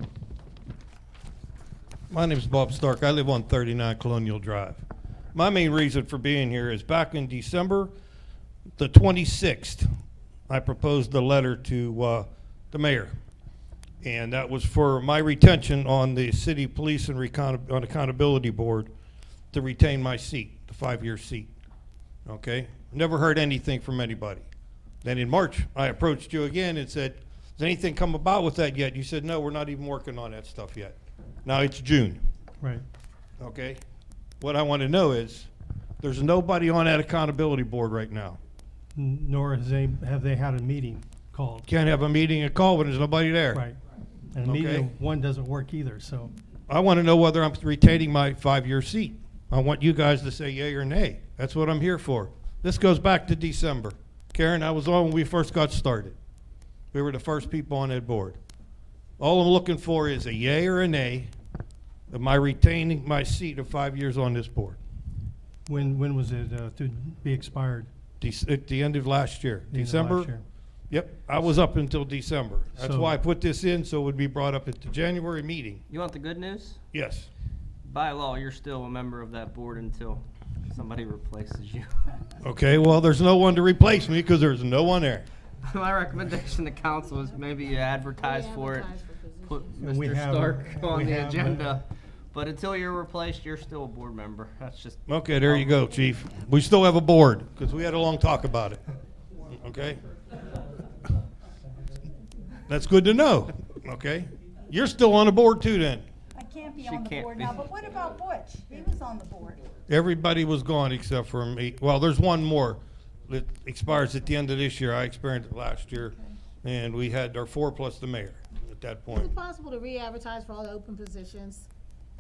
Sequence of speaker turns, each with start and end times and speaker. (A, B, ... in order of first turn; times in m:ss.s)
0:02.1-0:07.9 A
0:08.8-0:09.9 A
0:10.5-0:13.1 A
0:14.0-0:18.9 A
0:19.5-0:21.5 A
0:22.3-0:24.5 A
0:25.0-0:32.2 A
0:33.4-0:33.8 A
0:34.4-0:38.4 A
0:39.0-0:41.7 B
0:41.7-0:43.6 A
0:43.5-0:43.8 B
0:44.3-0:46.3 B
0:44.4-0:44.9 A
0:46.7-0:56.2 A
0:56.9-0:58.4 A
0:59.2-1:01.3 A
1:02.1-1:04.8 A
1:05.7-1:07.9 B
1:08.2-1:10.3 A
1:09.7-1:10.4 B
1:10.9-1:15.8 A
1:12.8-1:13.2 B
1:15.9-1:16.8 C
1:16.9-1:17.3 A
1:17.8-1:22.3 C
1:22.4-1:25.3 A
1:25.6-1:29.0 C
1:27.3-1:29.9 D
1:29.5-1:35.8 C
1:29.8-1:31.8 B
1:35.1-1:38.8 A
1:39.5-1:40.0 A
1:42.7-1:46.1 A
1:46.4-1:49.6 E
1:46.8-1:47.8 C
1:49.9-1:59.3 A
1:59.1-2:01.7 D